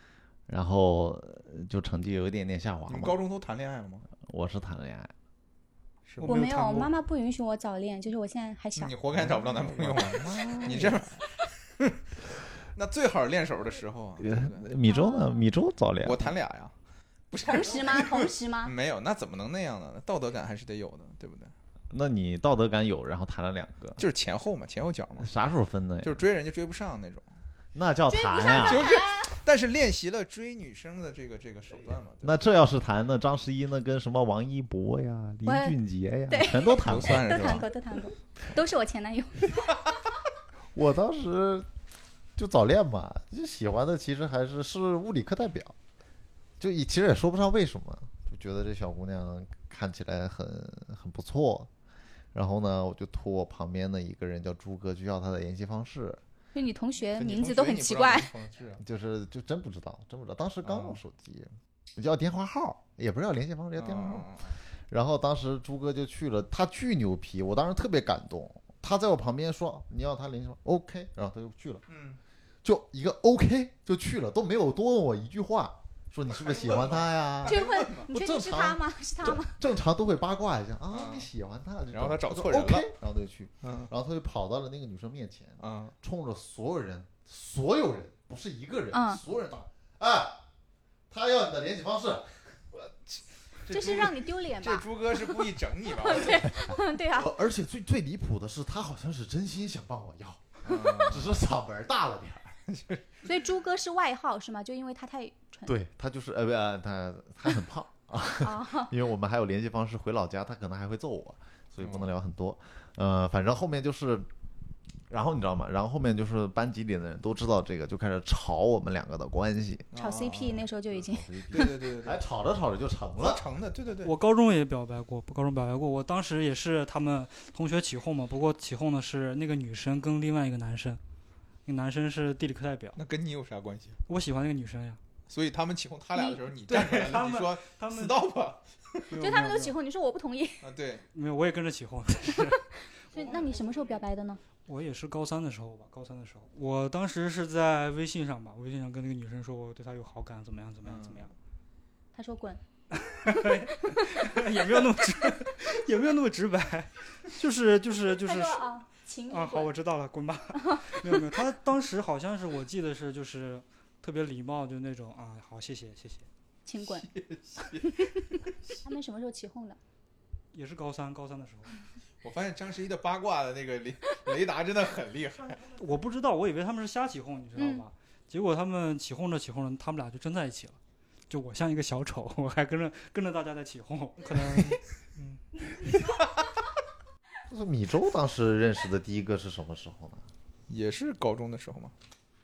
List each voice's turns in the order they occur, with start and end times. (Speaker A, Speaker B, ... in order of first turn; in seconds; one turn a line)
Speaker A: 0.5-3.2
Speaker B: 2.9-4.0
Speaker A: 4.2-5.1
Speaker B: 6.0-6.3
Speaker C: 6.2-6.9
Speaker D: 6.2-8.9
Speaker B: 8.8-11.2
Speaker A: 9.1-11.1
Speaker B: 12.7-14.7
Speaker A: 14.2-16.3
Speaker D: 14.8-15.4
Speaker B: 16.0-16.7
Speaker B: 17.3-21.5
Speaker D: 17.4-18.7
Speaker A: 21.9-24.0
Speaker B: 24.0-25.3
Speaker A: 25.2-26.2
Speaker B: 26.0-27.2
Speaker A: 27.7-29.0
Speaker D: 28.1-29.3
Speaker B: 28.6-32.3
Speaker A: 32.2-37.6
Speaker D: 35.5-35.8
Speaker D: 36.3-39.7
Speaker B: 36.7-37.7
Speaker A: 40.7-41.7
Speaker A: 42.4-45.8
Speaker A: 46.6-51.7
Speaker A: 52.3-56.2
Speaker D: 56.5-58.3
Speaker B: 57.1-58.8
Speaker A: 58.8-64.3
Speaker B: 60.6-61.0
Speaker B: 63.8-64.5
Speaker A: 64.9-71.8
Speaker B: 71.9-72.2
Speaker A: 72.6-90.4
Speaker B: 76.4-78.1
Speaker D: 77.4-79.5
Speaker B: 80.9-81.3
Speaker B: 81.9-82.9
Speaker B: 83.6-83.9
Speaker B: 85.6-85.9
Speaker D: 88.9-89.2
Speaker A: 91.1-94.1
Speaker D: 93.7-97.3
Speaker B: 94.6-96.5
Speaker A: 96.7-102.6
Speaker B: 100.6-101.4
Speaker B: 102.7-103.0
Speaker D: 103.2-105.7
Speaker A: 105.7-114.3
Speaker D: 108.4-108.9
Speaker B: 111.8-112.1
Speaker A: 115.1-119.9
Speaker B: 119.9-120.7
Speaker D: 119.9-121.8
Speaker A: 120.9-123.4
Speaker B: 121.5-122.2
Speaker B: 123.2-124.1
Speaker C: 124.0-131.0
Speaker C: 131.7-133.0
Speaker B: 132.9-134.0
Speaker C: 134.1-135.0
Speaker B: 135.3-139.1
Speaker C: 136.7-138.2
Speaker C: 139.1-139.7
Speaker D: 139.1-140.7
Speaker B: 140.6-141.0
Speaker C: 141.1-143.3
Speaker D: 143.1-144.4
Speaker C: 144.7-151.3
Speaker B: 150.8-151.3
Speaker D: 152.1-152.6
Speaker C: 152.9-158.6
Speaker D: 158.2-159.7
Speaker C: 159.3-166.3
Speaker D: 160.6-161.0
Speaker D: 166.7-167.1
Speaker B: 166.8-168.4
Speaker D: 167.9-169.8
Speaker C: 170.5-171.7
Speaker B: 172.2-175.6
Speaker C: 175.8-180.8
Speaker D: 177.6-177.8
Speaker C: 181.3-185.4
Speaker A: 187.5-190.2
Speaker B: 190.7-191.9